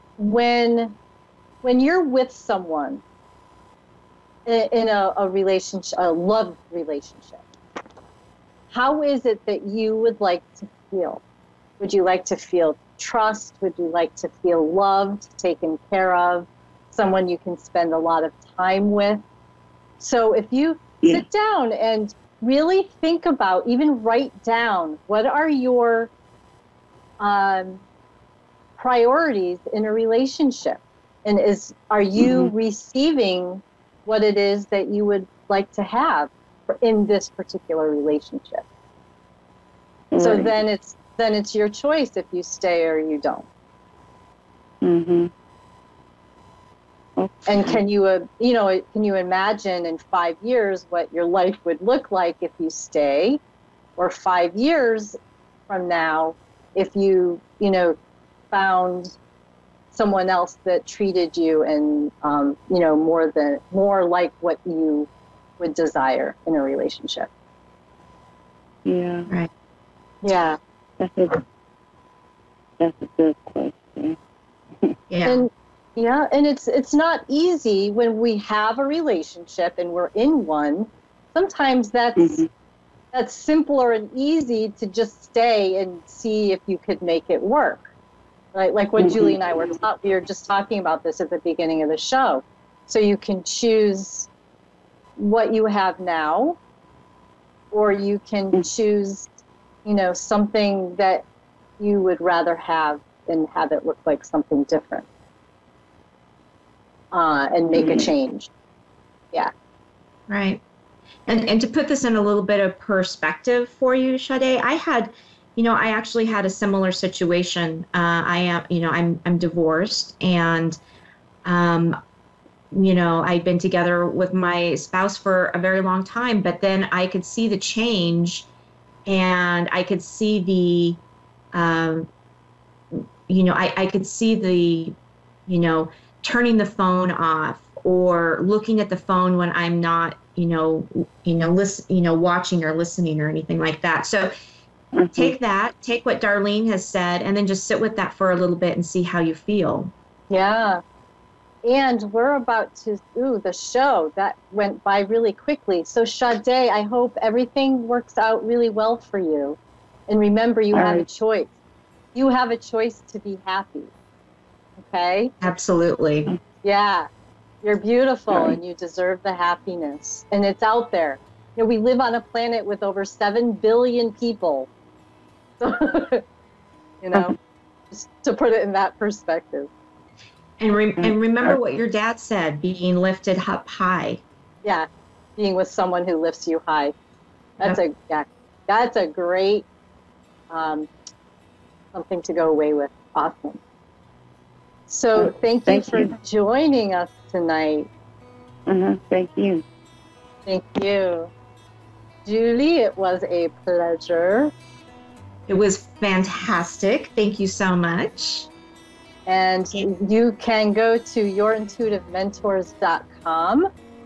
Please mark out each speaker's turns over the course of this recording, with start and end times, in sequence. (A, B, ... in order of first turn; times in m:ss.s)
0:00.2-0:01.0 A
0:01.6-0:03.0 A
0:04.4-0:07.4 A
0:08.7-0:11.2 A
0:11.8-0:19.2 A
0:20.0-0:26.1 A
0:27.2-0:27.8 A
0:28.8-0:38.6 A
0:32.2-0:32.5 B
0:40.1-0:40.6 B
0:40.2-0:43.5 A
0:44.8-0:45.3 B
0:47.2-0:47.8 B
0:47.5-0:53.4 A
0:54.0-0:55.2 A
0:55.7-0:58.0 A
0:58.5-0:59.2 A
0:59.9-1:07.3 A
1:08.8-1:09.3 B
1:10.2-1:10.6 A
1:11.0-1:11.4 B
1:12.8-1:14.2 B
1:15.1-1:15.5 C
1:15.2-1:22.4 A
1:22.2-1:22.5 B
1:23.1-1:27.9 A
1:28.5-1:34.3 A
1:29.0-1:29.4 B
1:35.2-1:36.6 A
1:37.7-1:39.3 A
1:39.8-1:41.2 A
1:41.8-1:45.1 A
1:47.1-1:48.5 A
1:47.7-1:48.1 B
1:50.3-1:50.6 C
1:51.3-2:00.8 C
2:01.4-2:02.0 C
2:02.7-2:08.5 C
2:09.0-2:11.0 C
2:11.5-2:12.1 C
2:12.9-2:14.9 C
2:15.5-2:24.3 C
2:24.9-2:25.3 B
2:25.1-2:29.9 C
2:30.3-2:30.8 A
2:31.6-2:39.6 A
2:40.1-2:41.5 A
2:40.7-2:41.0 B
2:42.1-2:43.9 A
2:44.8-2:45.3 A
2:45.4-2:46.3 C
2:46.6-2:47.1 A
2:47.6-2:54.7 A
2:48.3-2:48.6 B
2:55.6-2:56.2 A
2:57.0-2:57.4 A
2:57.9-2:59.7 A
3:00.6-3:04.2 C
3:01.0-3:01.6 B
3:04.6-3:06.9 A
3:07.6-3:09.6 A
3:10.5-3:10.9 A
3:11.9-3:13.6 A
3:14.9-3:17.9 A
3:15.2-3:16.1 B
3:18.7-3:19.6 B
3:20.5-3:21.3 A
3:22.2-3:24.5 A
3:25.5-3:28.5 C
3:29.2-3:33.7 A